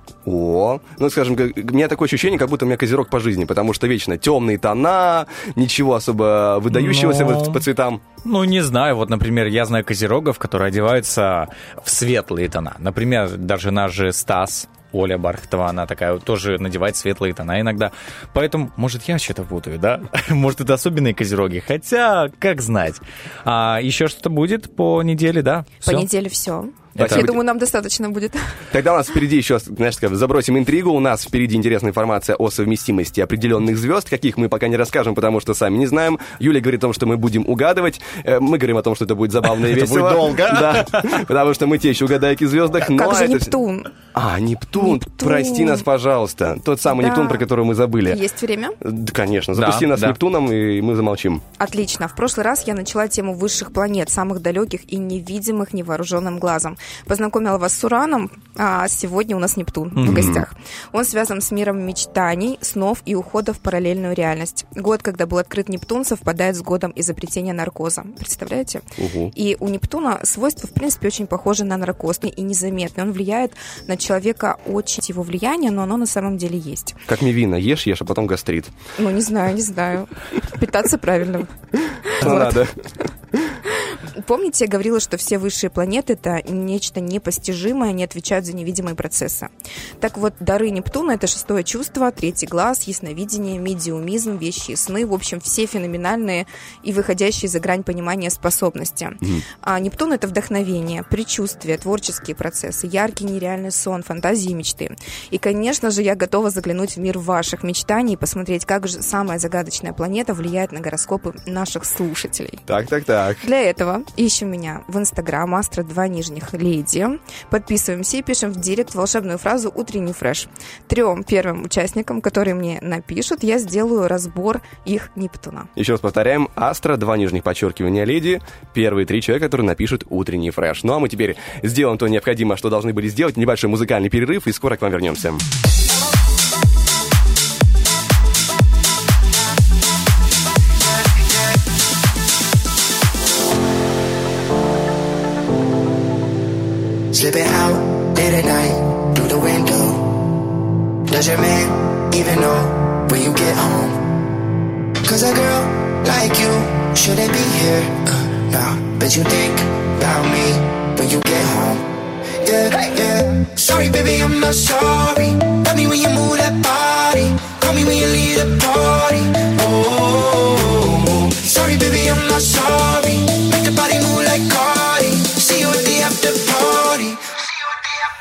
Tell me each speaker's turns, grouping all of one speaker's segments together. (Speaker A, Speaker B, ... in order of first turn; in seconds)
Speaker A: 0.2-8.0, 27.0-27.4, 28.7-43.5, 44.1-48.2, 48.8-51.4, 60.0-60.5, 69.0-69.3, 77.1-78.7, 82.2-82.7, 112.7-113.5, 125.8-135.4
Speaker B: 6.7-7.6, 8.2-26.1, 26.9-27.4, 39.5-41.0, 49.5-50.2, 60.0-60.3
Speaker C: 25.8-28.5, 42.8-43.9, 44.8-45.8, 46.8-47.5, 48.1-48.8, 51.6-77.0, 79.0-81.5, 82.1-82.6, 84.2-112.6, 113.4-125.7
Speaker D: 147.1-150.1, 151.1-154.0, 155.0-161.8, 162.4-177.2